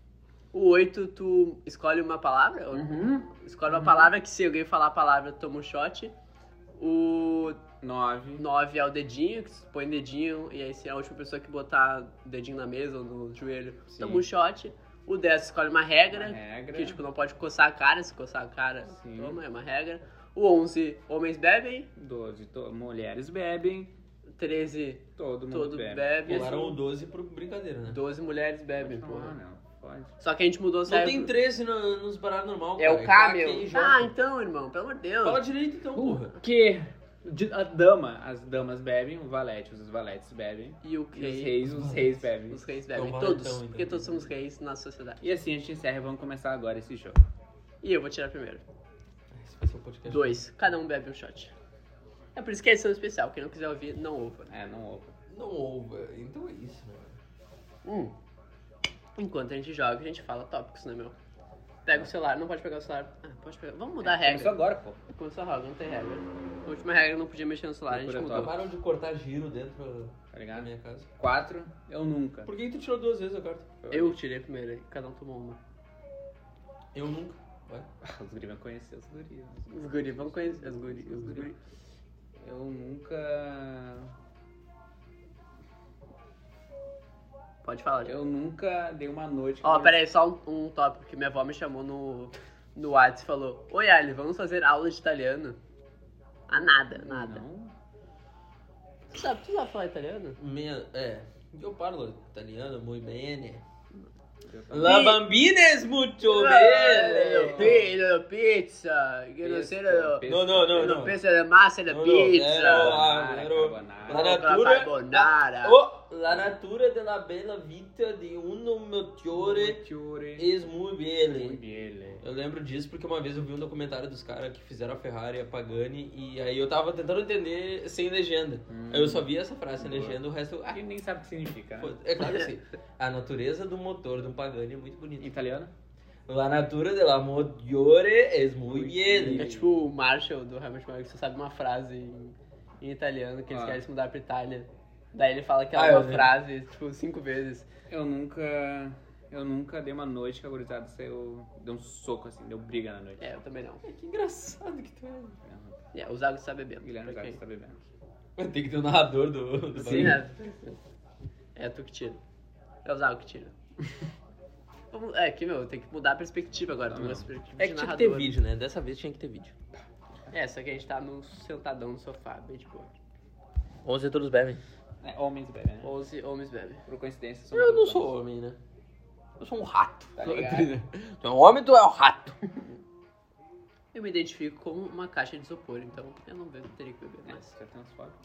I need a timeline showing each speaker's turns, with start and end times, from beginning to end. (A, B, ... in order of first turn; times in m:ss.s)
0:00.5-0:06.1 A
0:02.7-0:04.1 B
0:06.8-0:07.6 A
0:07.8-0:08.4 B
0:08.4-0:21.9 A
0:13.9-0:14.2 B
0:16.1-0:17.0 B
0:18.9-0:19.4 B
0:22.0-0:23.9 B
0:24.4-0:26.8 A
0:25.2-0:26.4 B
0:26.2-0:28.0 C
0:27.9-0:29.4 A
0:28.8-0:30.1 B
0:30.2-0:31.3 A
0:30.8-0:34.1 C
0:32.8-0:35.4 A
0:35.2-0:36.4 C
0:35.9-0:42.6 B
0:40.8-0:41.6 A
0:41.7-0:42.0 C
0:42.5-0:45.2 A
0:42.9-0:44.3 C
0:45.2-0:47.2 B
0:47.8-0:48.6 A
0:49.3-0:50.4 C
0:50.1-0:51.5 A
0:52.3-0:54.5 A
0:54.5-0:55.1 B
0:55.3-0:57.2 C
0:57.8-0:58.1 A
0:59.2-1:01.1 A
1:01.8-1:08.5 A
1:04.0-1:05.0 B
1:07.9-1:08.6 B
1:08.2-1:11.1 C
1:10.3-1:12.5 B
1:12.4-1:13.7 C
1:13.8-1:14.2 B
1:13.9-1:15.6 A
1:16.9-1:17.9 C
1:18.0-1:21.5 B
1:19.7-1:21.6 A
1:22.4-1:24.1 B
1:27.6-1:28.2 A
1:28.0-1:30.0 B
1:29.6-1:35.6 A
1:36.5-1:37.4 A
1:36.9-1:37.7 B
1:39.1-1:40.4 A
1:40.4-1:43.6 C
1:44.4-1:45.0 B
1:44.7-1:47.9 C
1:44.8-1:45.2 A
1:46.2-1:53.0 A
1:47.3-1:47.8 B
1:49.4-1:51.1 B
1:50.2-1:51.2 C
1:51.9-1:59.8 C
1:52.6-1:54.3 B
1:54.1-1:55.8 A
1:59.3-2:00.5 B
2:00.4-2:01.6 C
2:01.3-2:02.2 B
2:02.2-2:10.8 C
2:08.7-2:12.0 B
2:11.8-2:15.3 C
2:15.2-2:15.7 B
2:16.3-2:19.4 C
2:18.7-2:19.7 B
2:19.3-2:27.7 A
2:23.5-2:23.8 B
2:25.7-2:26.3 C
2:27.9-2:33.2 B
2:33.2-2:33.8 A
2:33.8-2:35.4 C
2:35.4-2:35.8 B
2:35.9-2:37.4 A
2:36.8-2:37.8 B
2:38.4-2:40.2 C
2:39.8-2:40.2 B
2:39.8-2:40.8 A
2:41.6-2:42.2 A
2:42.8-2:43.5 A
2:44.9-2:48.4 A
2:46.8-2:47.3 B
2:47.6-2:49.5 C
2:50.3-2:52.9 A
2:53.8-2:54.6 C
2:55.0-2:55.9 B
2:55.8-2:56.8 A
2:56.8-2:58.1 B
2:57.5-2:58.6 C
2:59.4-3:02.4 C
3:00.2-3:00.7 B
3:03.9-3:07.5 A
3:07.2-3:08.2 B